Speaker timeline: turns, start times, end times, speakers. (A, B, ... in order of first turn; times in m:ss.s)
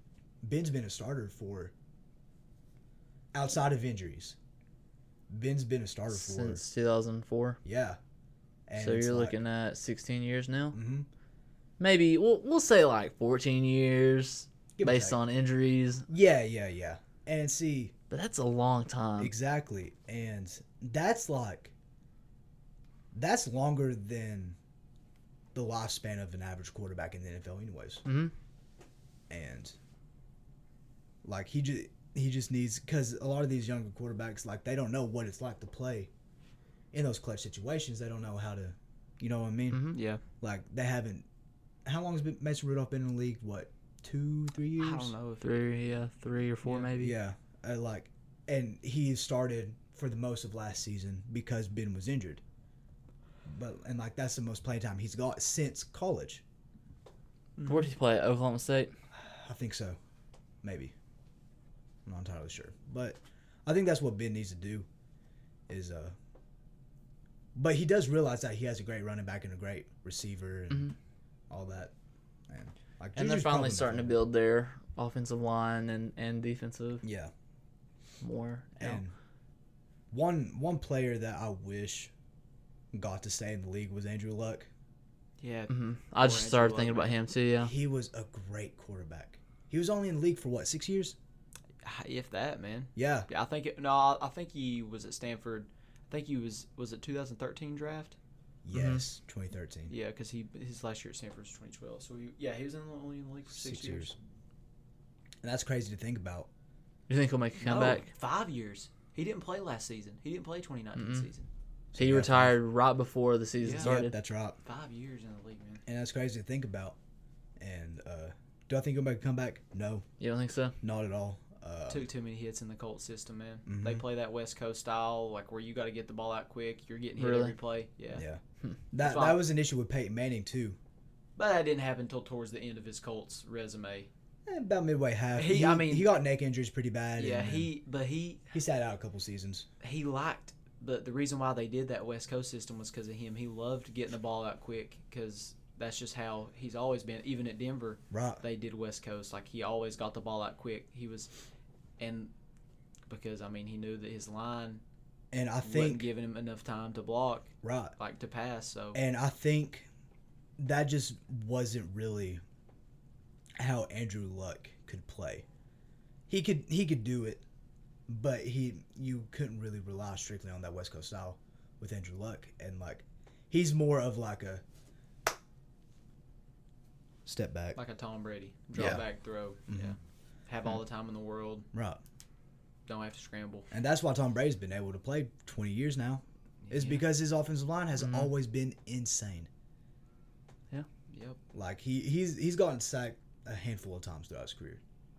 0:00.4-0:01.7 A
0:03.3-0:04.4 A
0:05.3-0:06.7 A
0:06.1-0:07.6 B
0:07.6-0:08.0 A
0:08.7-0:09.4 A
0:08.8-0:10.8 B
0:10.7-0:11.1 A
0:11.8-0:16.1 B
0:14.8-0:15.2 A
0:16.1-0:17.9 A
0:18.1-0:19.3 B
0:19.2-0:21.7 A
0:23.1-0:24.6 A
0:25.5-0:28.0 A
0:28.0-0:28.3 B
0:29.3-0:29.8 A
0:31.2-0:36.1 A
0:36.9-0:39.9 A
0:39.7-0:40.0 B
0:39.9-0:40.2 C
0:40.4-0:41.2 A
0:41.8-0:45.1 A
0:44.8-0:45.5 C
0:45.4-0:47.2 B
0:46.9-0:52.4 A
0:53.4-0:56.4 A
0:57.6-0:57.9 C
0:57.6-0:58.9 B
0:59.2-1:00.0 A
1:00.6-1:00.9 A
1:02.0-1:04.9 A
1:05.7-1:06.1 A
1:07.5-1:10.9 A
1:11.5-1:11.9 A
1:12.5-1:14.2 A
1:13.2-1:17.0 B
1:17.0-1:17.3 A
1:18.2-1:19.0 B
1:18.8-1:19.1 A
1:20.1-1:22.1 A
1:22.9-1:24.7 A
1:25.4-1:27.2 C
1:25.7-1:27.7 B
1:27.6-1:31.2 A
1:31.8-1:38.2 C
1:33.0-1:33.3 A
1:38.6-1:39.9 A
1:38.7-1:39.0 B
1:39.9-1:44.1 C
1:43.5-1:44.1 A
1:45.4-1:46.5 A
1:47.1-1:48.1 B
1:47.6-1:51.5 C
1:51.0-1:51.3 B
1:51.9-1:52.6 A
1:52.0-1:54.1 B
1:53.6-1:54.0 C
1:53.8-1:54.6 A
1:54.6-1:55.8 C
1:55.8-1:57.0 A
1:57.6-2:00.0 A
2:00.2-2:00.8 B
2:00.8-2:02.1 A
2:01.9-2:08.2 C
2:03.7-2:04.0 A
2:07.2-2:07.5 B
2:08.1-2:10.8 A
2:09.0-2:09.4 C
2:11.4-2:14.1 C
2:14.4-2:17.7 A
2:15.4-2:16.2 C
2:17.2-2:18.5 C
2:18.5-2:19.7 A
2:19.8-2:31.3 C
2:28.1-2:28.4 A
2:32.0-2:32.3 C
2:33.1-2:34.8 C
2:35.3-2:36.1 A
2:35.6-2:39.0 C
2:37.6-2:37.9 A
2:38.9-2:39.9 A
2:40.6-2:42.4 A
2:43.6-2:45.4 A
2:46.3-2:47.4 A
2:48.1-2:54.6 A
2:57.2-2:57.8 A
2:57.8-3:01.7 C
2:58.8-2:59.0 A
2:59.7-2:59.9 A
3:01.7-3:02.0 A
3:02.9-3:03.7 C
3:03.7-3:09.5 A
3:06.6-3:07.0 C
3:08.0-3:08.3 B
3:11.1-3:11.4 C
3:11.5-3:14.8 A